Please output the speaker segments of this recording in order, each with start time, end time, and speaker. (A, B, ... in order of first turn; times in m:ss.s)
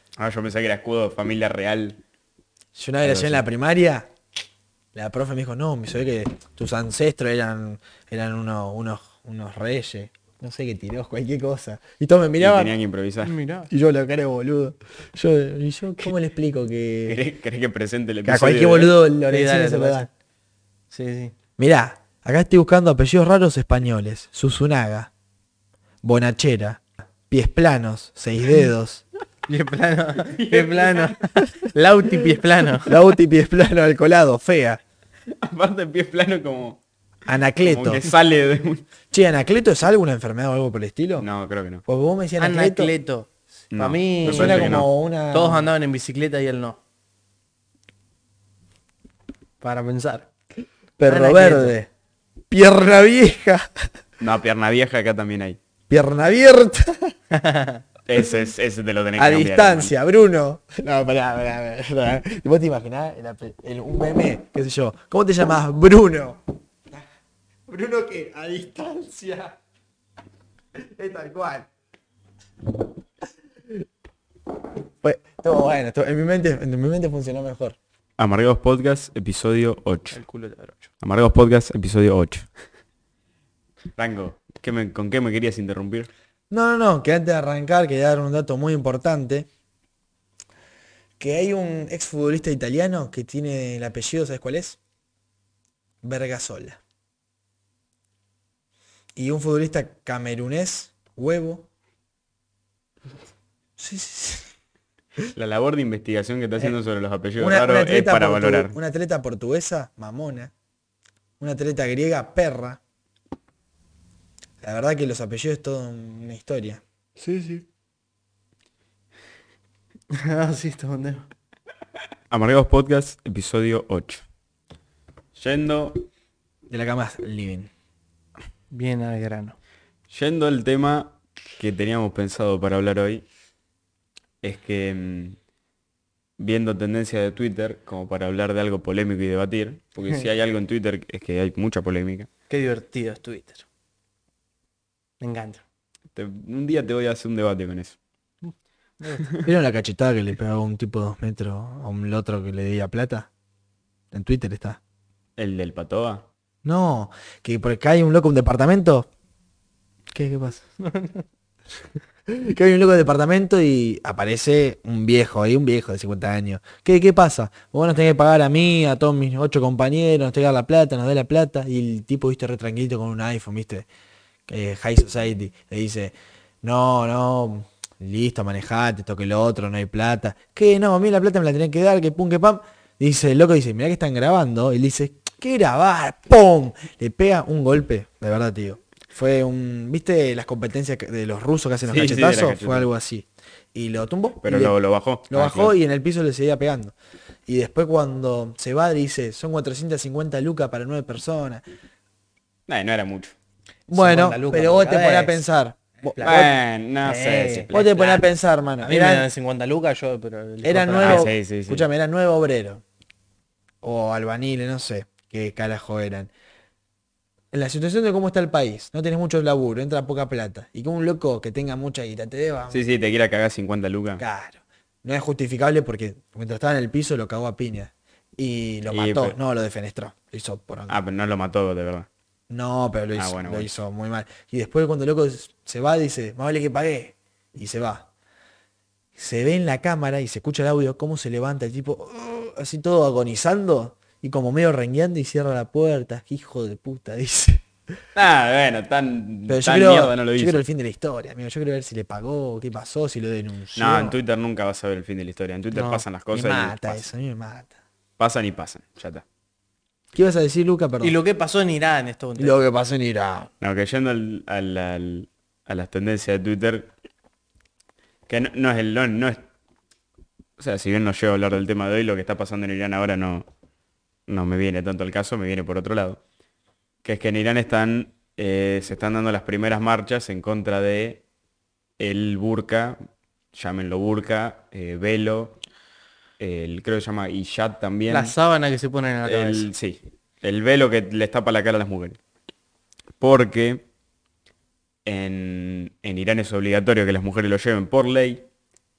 0:00.2-0:02.0 A
0:02.8-0:04.1 B
0:03.0-0:03.4 A
0:04.9-0:12.7 B
0:12.4-0:13.3 A
0:13.2-0:13.7 C
0:13.7-0:17.2 B
0:17.1-0:19.0 A
0:18.2-0:20.1 B
0:19.3-0:20.1 C
0:20.9-0:21.3 C
0:21.6-0:25.1 B
0:26.0-0:29.0 B
0:29.5-0:33.0 C
0:30.2-0:31.2 A
0:32.8-0:34.8 B
0:35.3-0:36.8 A
0:37.3-0:38.0 B
0:37.6-0:38.9 A
0:39.1-0:41.3 B
0:41.2-0:41.8 A
0:41.9-0:42.9 B
0:42.4-0:46.8 C
0:43.7-0:44.9 A
0:44.2-0:45.7 B
0:49.6-0:50.3 C
0:51.0-0:51.9 B
0:51.1-0:51.8 C
0:52.5-0:53.9 B
0:54.2-0:55.6 A
0:55.9-0:57.1 B
0:57.3-0:57.8 C
0:58.1-0:59.9 A
0:59.2-1:06.4 B
1:07.7-1:09.6 B
1:10.8-1:11.7 B
1:15.0-1:17.8 B
1:18.2-1:20.2 A
1:20.1-1:20.9 C
1:21.0-1:22.5 A
1:24.0-1:26.1 A
1:26.5-1:29.5 B
1:31.2-1:34.8 B
1:36.0-1:36.8 B
1:39.2-1:41.7 B
1:43.8-1:44.5 B
1:45.4-1:48.8 A
1:47.4-1:50.5 B
1:51.4-1:52.8 B
1:54.6-1:56.8 B
1:57.2-1:57.6 C
2:00.1-2:01.3 C
2:02.3-2:04.2 A
2:05.4-2:06.1 A
2:06.7-2:07.7 B
2:08.7-2:09.6 C
2:10.1-2:13.2 A
2:14.4-2:15.4 A
2:16.4-2:22.3 A
2:22.5-2:23.6 C
2:25.2-2:25.6 C
2:26.1-2:28.0 A
2:29.0-2:29.3 C
2:29.4-2:33.3 B
2:34.1-2:34.8 B
2:35.4-2:36.3 A
2:36.6-2:39.1 B
2:40.1-2:40.6 B
2:40.8-2:41.3 C
2:42.3-2:53.9 B
2:54.5-3:14.8 B
3:11.8-3:12.9 A
3:14.4-3:15.8 A
3:15.3-3:16.9 B
3:17.5-3:21.6 B
3:22.7-3:23.4 A
3:23.9-3:26.5 B
3:23.9-3:25.4 C
3:26.1-3:26.5 C
3:26.2-3:27.7 A
3:27.0-3:28.2 C
3:27.7-3:29.3 B
3:28.8-3:31.3 C
3:30.6-3:32.8 B
3:31.0-3:31.9 A
3:33.8-3:36.3 B
3:37.5-3:42.8 B
3:42.7-3:44.2 A
3:44.2-3:51.0 B
3:48.9-3:49.4 A
3:50.9-3:52.1 A
3:52.5-3:58.1 B
3:53.2-3:53.8 A
3:59.2-4:07.6 B
4:08.2-4:10.6 A
4:09.5-4:14.2 B
4:13.8-4:17.0 A
4:15.7-4:16.0 C
4:16.3-4:17.7 B
4:18.2-4:19.2 A
4:20.1-4:21.2 B
4:21.0-4:22.6 C
4:22.4-4:23.5 B
4:23.6-4:26.9 A
4:28.3-4:29.4 A
4:30.6-4:33.5 A
4:34.3-4:36.2 A
4:37.0-4:41.2 A
4:42.0-4:43.0 A
4:43.5-4:45.6 A
4:46.4-4:48.4 A
4:48.1-4:49.7 C
4:49.2-4:52.2 A
4:53.2-4:53.8 A
4:55.0-4:58.5 A